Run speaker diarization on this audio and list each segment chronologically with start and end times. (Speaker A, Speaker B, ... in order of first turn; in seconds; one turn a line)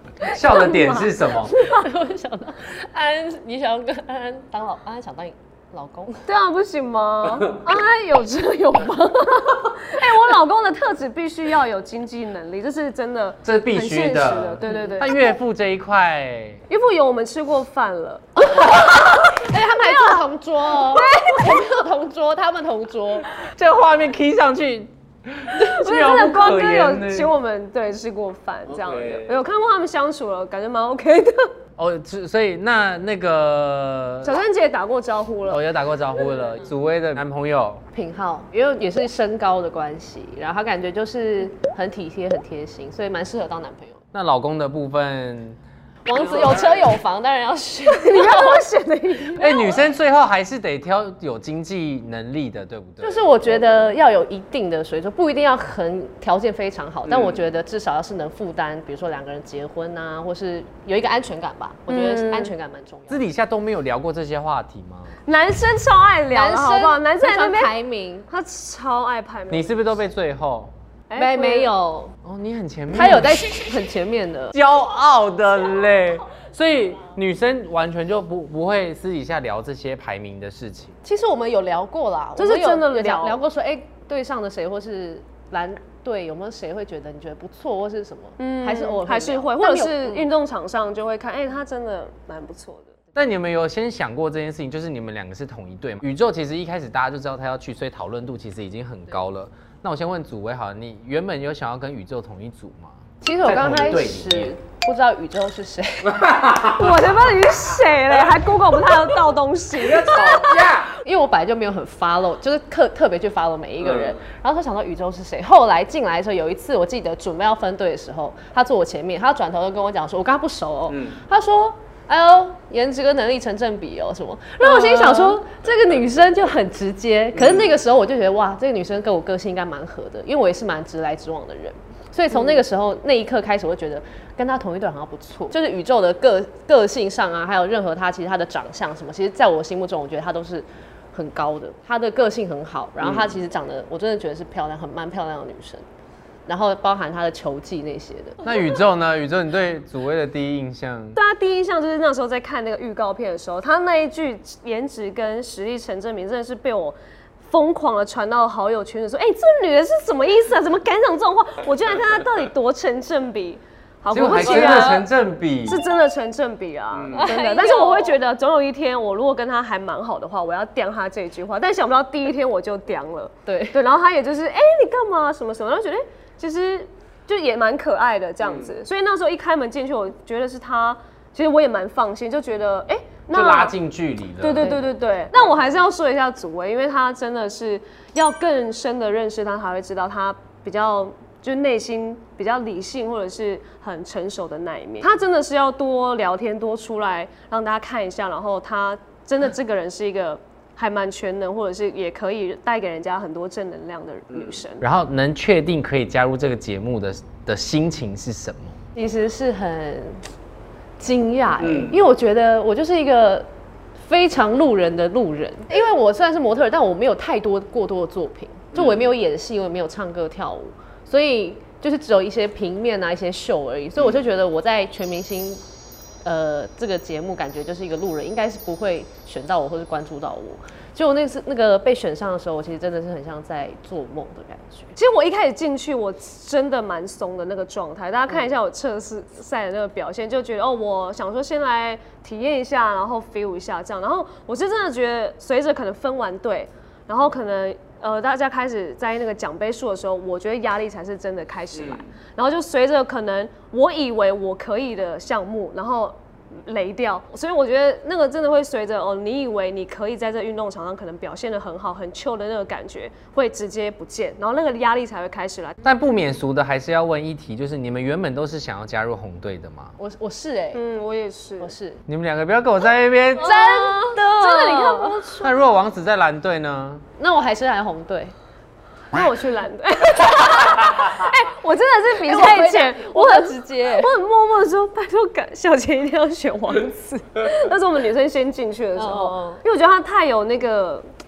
Speaker A: 0.2-1.6
Speaker B: 0.2-1.8
Speaker C: 1.6-6.2
Speaker B: 6.3-15.4
Speaker A: 13.4-16.6
Speaker C: 14.7-15.0
Speaker B: 16.7-21.6
Speaker C: 19.3-23.3
Speaker A: 23.4-27.3
Speaker B: 25.6-31.5
Speaker A: 28.7-29.3
Speaker A: 31.8-34.3
Speaker B: 34.2-35.6
Speaker A: 35.5-37.8
Speaker C: 37.9-44.0
Speaker A: 44.1-45.6
Speaker C: 46.0-48.6
Speaker A: 46.2-46.7
Speaker B: 47.9-49.8
Speaker A: 49.3-53.2
Speaker C: 53.0-63.2
Speaker A: 57.1-57.4
Speaker B: 61.9-62.5
Speaker A: 63.1-65.2
Speaker B: 65.3-67.7
Speaker C: 66.3-68.3
Speaker B: 68.3-69.8
Speaker A: 69.5-70.7
Speaker B: 71.1-71.7
Speaker C: 71.2-72.2
Speaker A: 72.2-73.4
Speaker C: 72.9-74.5
Speaker A: 74.5-81.0
Speaker C: 81.0-90.3
Speaker B: 82.4-83.4
Speaker B: 88.4-93.0
Speaker A: 93.2-104.5
Speaker C: 103.2-106.3
Speaker B: 106.6-110.8
Speaker A: 109.8-110.9
Speaker C: 111.0-145.8
Speaker A: 113.8-114.1
Speaker B: 124.6-125.4
Speaker A: 143.0-143.3
Speaker C: 146.4-148.4
Speaker A: 148.4-151.2
Speaker B: 151.2-165.1
Speaker A: 164.1-165.8
Speaker C: 164.4-164.9
Speaker B: 165.7-183.7
Speaker C: 167.1-168.1
Speaker C: 173.4-173.8
Speaker A: 183.3-184.8
Speaker B: 184.4-204.8
Speaker C: 184.6-184.9
Speaker A: 204.8-208.8
Speaker C: 208.9-210.2
Speaker C: 211.0-213.5
Speaker A: 211.6-212.0
Speaker C: 214.0-225.6
Speaker A: 218.7-219.1
Speaker C: 226.2-234.9
Speaker B: 234.9-265.8
Speaker A: 265.8-270.0
Speaker C: 270.0-270.8
Speaker B: 270.7-271.7
Speaker C: 271.6-272.0
Speaker A: 272.1-273.5
Speaker B: 273.4-275.6
Speaker C: 273.4-275.2
Speaker A: 275.4-277.0
Speaker C: 277.2-278.3
Speaker B: 279.1-291.1
Speaker C: 282.2-284.1
Speaker C: 288.9-289.6